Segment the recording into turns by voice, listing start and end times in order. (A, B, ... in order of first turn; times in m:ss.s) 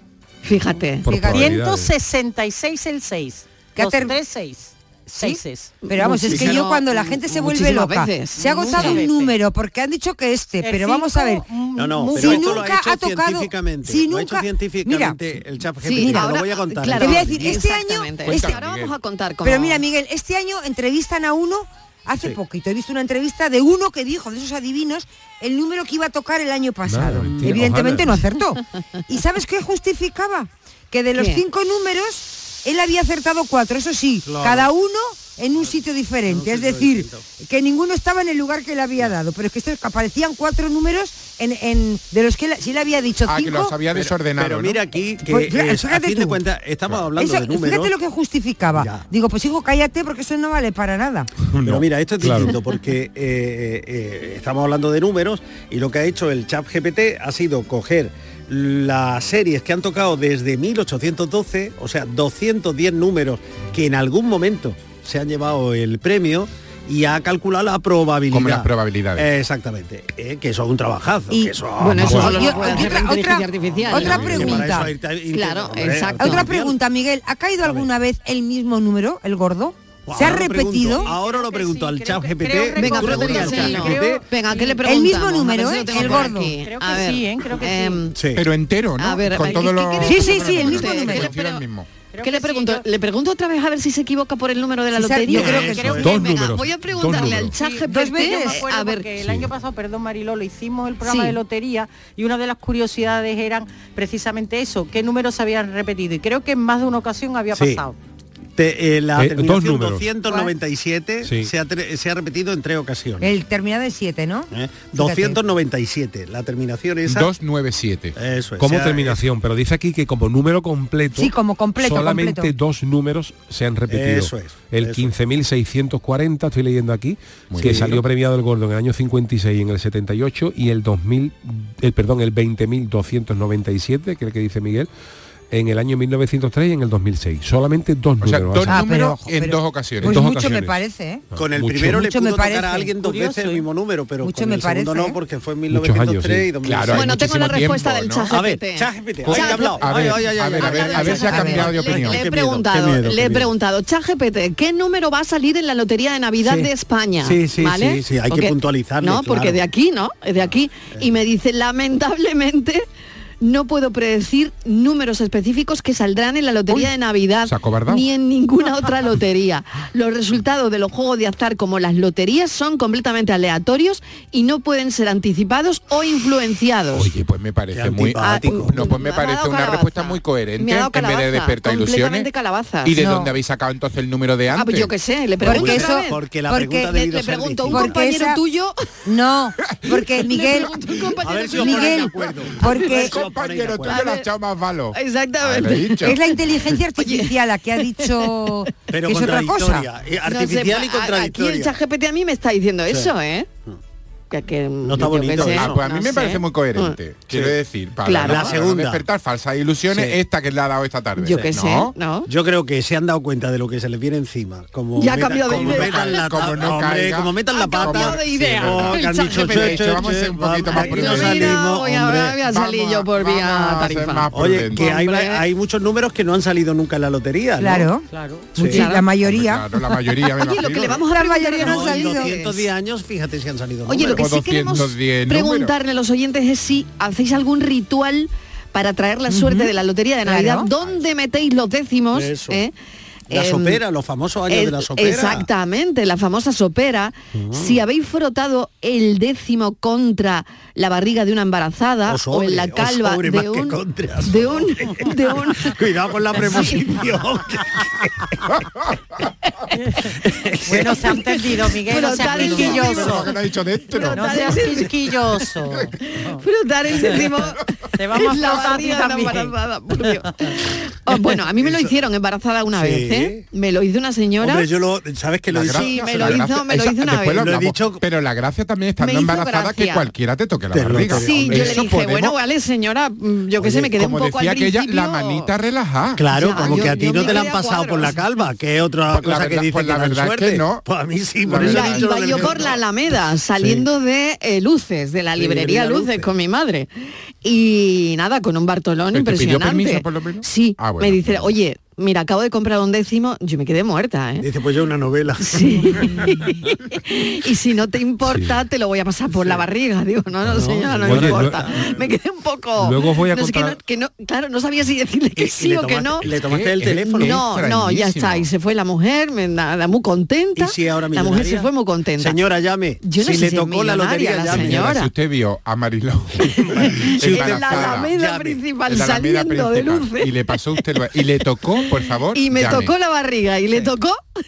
0:00.4-0:01.1 A
0:01.0-0:01.9 B
0:01.0-0:01.6 C
0:01.3-0:05.8 D
0:03.7-0:04.2 C
0:05.1-0:11.4 C
0:05.8-0:06.6 A
0:06.2-0:07.2 E
0:07.3-0:09.0 A
0:08.4-0:09.3 D
0:10.6-0:12.6 D
0:11.7-0:17.6 E
0:12.0-0:15.2 C
0:15.8-0:19.8 A
0:16.0-0:16.3 C
0:16.9-0:18.6 C
0:18.2-0:18.9 F
0:19.4-0:43.8 C
0:26.8-0:28.2 B
0:27.3-0:27.6 E
0:31.2-0:31.4 A
0:34.2-0:34.7 E
0:36.3-0:37.2 E
0:43.2-0:44.8 F
0:43.9-0:47.9 E
0:45.2-0:46.4 C
0:47.2-0:51.3 C
0:48.7-0:49.1 E
0:51.6-1:13.1 E
0:52.2-0:52.6 B
1:08.3-1:09.3 F
1:11.3-1:14.9 C
1:11.8-1:14.6 A
1:12.0-1:12.3 B
1:13.7-1:16.8 E
1:14.0-1:14.6 F
1:15.3-1:16.5 A
1:16.2-1:21.1 C
1:17.6-1:17.9 E
1:20.0-1:24.2 E
1:20.9-1:24.8 D
1:22.7-1:28.2 A
1:24.8-1:26.5 C
1:25.9-1:28.1 D
1:28.1-1:28.4 E
1:28.3-1:31.9 F
1:29.0-1:31.6 A
1:30.0-1:31.3 C
1:32.1-1:32.8 D
1:32.2-1:39.1 A
1:34.9-1:36.0 C
1:35.3-1:36.2 E
1:35.6-1:36.2 D
1:35.8-1:37.6 B
1:37.2-1:48.0 D
1:37.8-1:38.6 C
1:39.2-1:39.5 B
1:41.0-1:41.3 C
1:47.5-1:47.8 E
1:48.6-1:53.3 E
1:49.2-1:50.1 B
1:50.3-1:50.5 C
1:51.2-1:51.5 B
1:53.2-1:55.4 C
1:54.5-1:57.3 E
1:57.0-1:58.1 F
1:58.2-1:59.2 E
1:58.6-2:14.9 B
2:01.2-2:02.5 C
2:03.9-2:05.1 E
2:07.5-2:08.0 F
2:15.5-2:18.8 B
2:18.2-2:20.2 F
2:18.6-2:21.2 C
2:20.0-2:20.8 B
2:21.3-2:22.0 B
2:21.4-2:27.1 E
2:21.8-2:23.0 C
2:23.0-2:23.7 D
2:24.2-2:25.2 C
2:25.7-2:26.5 B
2:26.6-2:28.3 F
2:26.9-2:42.8 A
2:28.3-2:33.5 E
2:29.2-2:32.2 F
2:31.2-2:31.7 C
2:36.4-2:39.6 E
2:40.9-2:41.2 E
2:43.4-2:57.1 A
2:47.4-2:48.0 F
2:56.9-3:02.3 F
2:57.7-2:58.8 E
2:58.2-3:03.0 A
3:02.8-3:04.9 F
3:03.0-3:03.3 C
3:04.5-3:06.2 A
3:05.4-3:07.0 C
3:05.4-3:08.0 E
3:06.9-3:08.8 A
3:07.7-3:08.4 C
3:09.0-3:10.7 C
3:09.8-3:10.1 F
3:10.0-3:13.0 A
3:11.2-3:14.0 E
3:11.6-3:13.2 C
3:12.8-3:16.2 F
3:13.8-3:14.2 A
3:14.9-3:16.1 A
3:16.0-3:19.9 C
3:17.0-3:17.3 A
3:18.9-3:21.8 E
3:20.2-3:23.5 A
3:22.9-3:23.1 E
3:24.3-3:27.0 A
3:24.8-3:25.8 E
3:25.4-3:31.9 F
3:28.0-3:28.5 A
3:28.2-3:29.0 E
3:29.9-3:30.2 E
3:31.2-3:32.3 A
3:32.3-3:42.4 E
3:35.0-3:36.3 A
3:35.4-3:41.6 F
3:37.5-3:40.0 A
3:40.7-3:45.4 A
3:42.5-3:44.9 F
3:44.3-3:47.9 E
3:47.6-3:49.7 C
3:48.1-3:48.6 D
3:48.6-3:48.9 E
3:48.6-3:49.0 A
3:49.2-3:51.0 F
3:50.4-3:52.7 A
3:50.9-3:52.3 C
3:51.6-3:54.2 E
3:53.8-4:02.7 A
3:54.0-3:55.7 F
3:59.3-3:59.7 C
4:00.2-4:00.7 C
4:02.1-4:02.6 E
4:03.3-4:03.8 A
4:03.3-4:05.5 E
4:04.5-4:15.8 A
4:07.3-4:07.8 E
4:12.0-4:18.3 E
4:16.3-4:16.9 A
4:19.8-4:23.3 D
4:20.2-4:21.1 E
4:20.9-4:23.3 A
4:22.3-4:24.6 F
4:23.9-4:24.9 A
4:24.0-4:26.4 D
4:26.0-4:27.6 A
4:27.0-4:27.2 D
4:28.0-4:30.3 D
4:28.1-4:34.7 A
4:31.4-4:32.0 E
4:32.7-4:33.4 E
4:34.4-4:36.5 E
4:35.5-4:42.4 F
4:35.6-4:37.6 A
4:37.3-4:38.0 E
4:39.0-4:40.1 A
4:40.7-4:41.8 E
4:41.1-4:45.5 A
4:43.6-4:47.4 F
4:46.2-4:52.8 E
4:46.3-4:48.2 A
4:49.1-4:50.8 F
4:51.4-4:52.6 F
4:51.6-4:56.9 A
4:53.6-4:53.9 E
4:55.4-4:56.3 E
4:57.4-5:04.4 A
4:59.1-5:01.5 F
5:04.4-5:06.3 E
5:05.4-5:16.3 A
5:08.3-5:08.6 B
5:09.3-5:09.6 E
5:10.4-5:12.0 E
5:11.0-5:11.7 B
5:12.8-5:13.8 B
5:15.4-5:17.4 E
5:16.2-5:18.5 F
5:17.0-5:22.4 A
5:20.6-5:24.9 E
5:23.0-5:25.1 A
5:24.5-5:28.1 F
5:26.6-5:28.6 E
5:26.8-5:30.3 A
5:28.9-5:32.9 F
5:32.3-5:34.2 A